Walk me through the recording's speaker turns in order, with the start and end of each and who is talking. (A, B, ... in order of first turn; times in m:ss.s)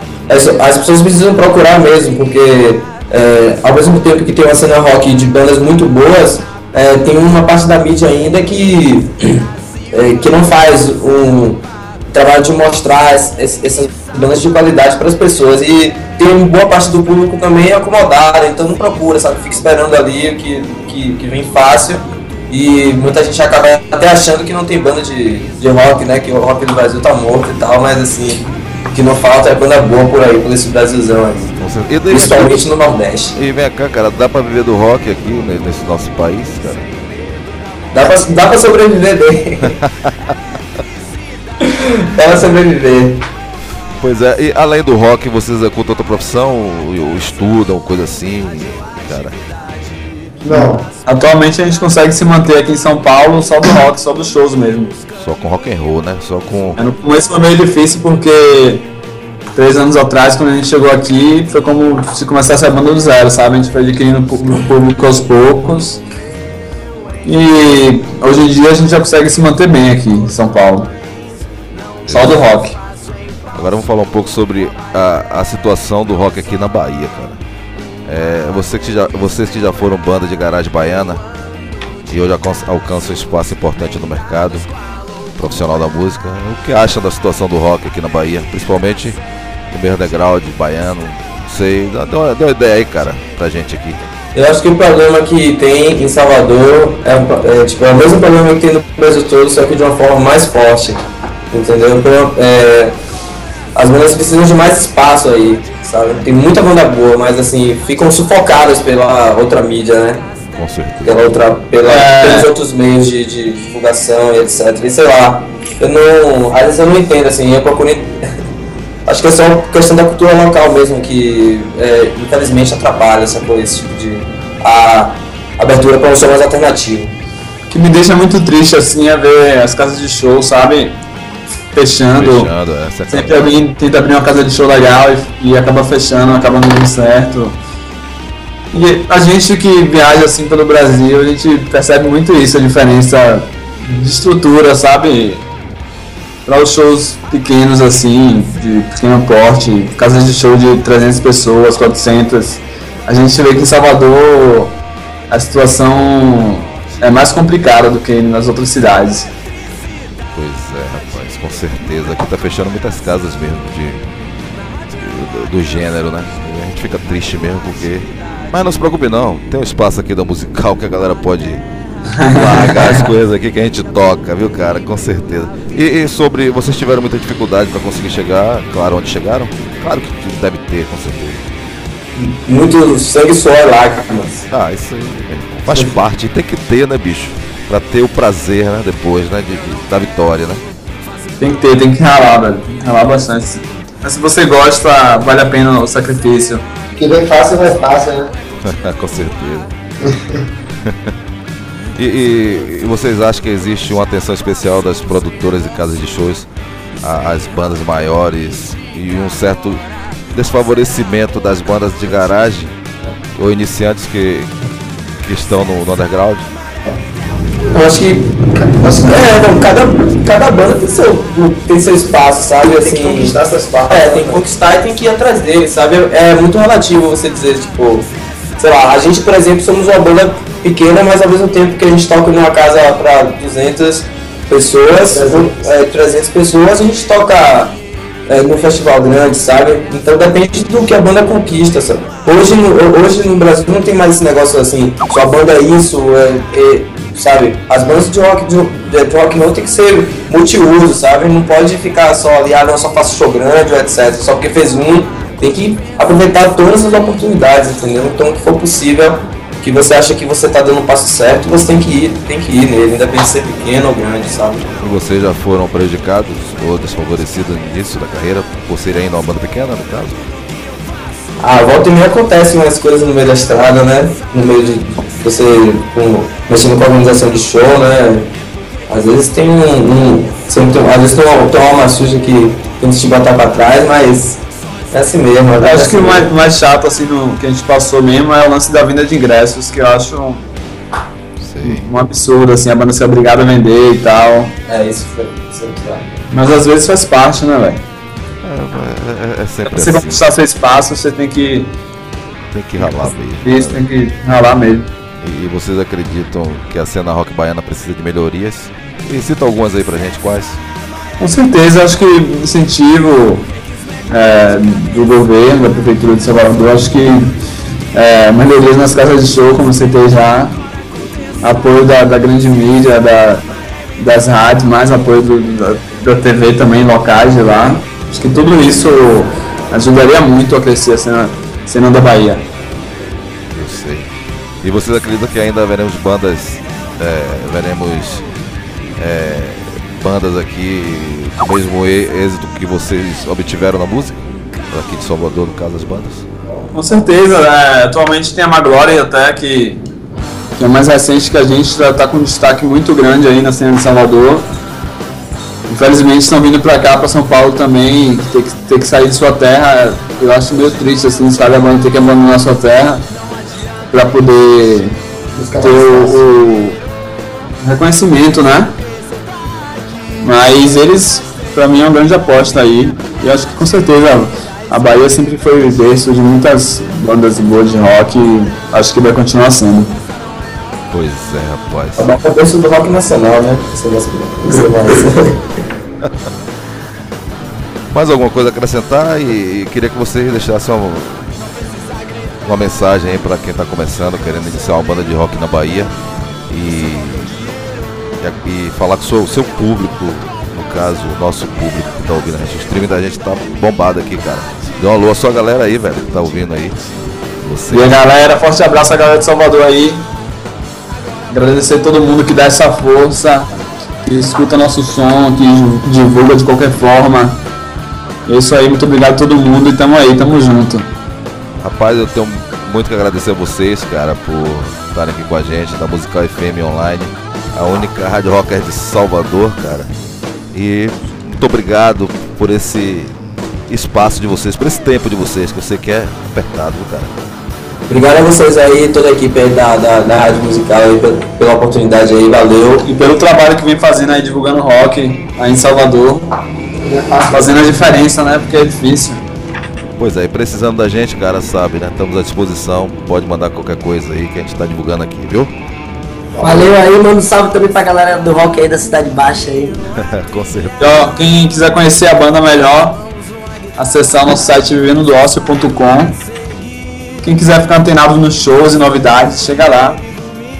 0:00.3-0:31.5 A
0:31.6-0:32.6 B
0:32.1-0:33.4 A
0:33.4-0:36.9 B
0:37.9-0:39.7 A
0:39.7-0:40.3 B
0:41.6-0:43.2 A
0:44.0-0:49.4 B
0:50.4-0:50.8 C
0:50.6-0:54.9 D
0:55.2-0:56.8 B
0:56.8-0:58.8 D
0:59.5-1:06.0 D
1:07.2-1:10.9 D
1:12.0-1:12.4 B
1:12.1-1:12.8 D
1:13.5-1:17.4 B
1:18.0-1:21.2 B
1:22.1-1:24.7 B
1:25.4-1:29.2 B
1:29.7-1:34.0 B
1:34.3-1:43.0 A
1:43.7-1:50.3 A
1:50.5-1:51.3 B
1:51.0-1:58.3 A
1:51.8-1:52.5 D
1:59.0-2:07.1 A
2:07.7-2:11.0 D
2:11.7-2:12.5 D
2:12.2-2:13.5 B
2:13.1-2:17.6 D
2:18.7-2:25.4 D
2:26.4-2:34.8 D
2:35.3-2:39.3 D
2:40.3-2:44.0 B
2:44.9-2:51.6 B
2:52.1-2:53.1 D
2:52.3-3:01.4 B
3:02.2-3:04.5 A
3:04.5-3:10.6 B
3:11.4-3:16.6 D
3:17.0-3:18.3 C
3:18.6-3:19.7 B
3:20.8-3:21.1 B
3:22.0-3:26.5 B
3:27.0-3:29.8 B
3:30.3-3:32.8 B
3:33.4-3:34.5 B
3:35.2-3:36.5 B
3:37.7-3:38.2 A
3:38.5-3:39.2 C
3:39.0-3:43.4 A
3:42.6-3:44.4 C
3:43.9-4:24.7 A
3:55.1-3:55.4 C
4:24.8-4:30.2 B
4:31.4-4:38.3 A
4:38.9-4:46.3 A
4:45.6-4:50.5 D
4:51.4-4:51.9 B
4:51.6-4:54.5 D
4:54.7-4:56.2 A
4:56.3-4:57.8 D
4:58.4-5:00.2 B
4:59.7-5:01.7 D
5:02.5-5:03.8 B
5:02.8-5:04.9 D
5:05.2-5:10.6 B
5:11.2-5:13.5 D
5:14.1-5:17.4 D
5:17.9-5:20.6 D
5:21.4-5:23.4 D
5:24.0-5:32.5 D
5:33.5-5:34.1 B
5:34.6-5:38.2 B
5:39.0-5:46.2 B
5:46.7-5:49.8 D
5:50.6-5:54.5 D
5:55.7-6:03.0 D
6:03.9-6:05.0 D
6:05.3-6:06.2 C
6:05.5-6:06.8 D
6:07.6-6:08.8 D
6:10.2-6:20.0 D
6:20.9-6:22.1 B
6:22.0-6:25.6 A
6:27.9-6:31.3 B
6:32.4-6:35.9 B
6:36.5-6:37.4 B
6:38.2-6:46.8 B
6:47.4-6:48.0 B
6:47.7-6:50.1 D
6:51.3-6:57.4 D
6:58.3-7:00.9 D
7:01.6-7:09.9 B
7:10.5-7:13.1 B
7:13.7-7:17.1 B
7:17.9-7:22.9 A
7:22.8-7:26.3 D
7:26.8-7:27.5 C
7:27.3-7:29.2 D
7:30.0-7:35.5 B
7:36.4-7:39.8 E
7:40.0-7:41.1 B
7:40.8-7:43.0 D
7:43.8-7:46.2 D
7:47.2-7:50.0 D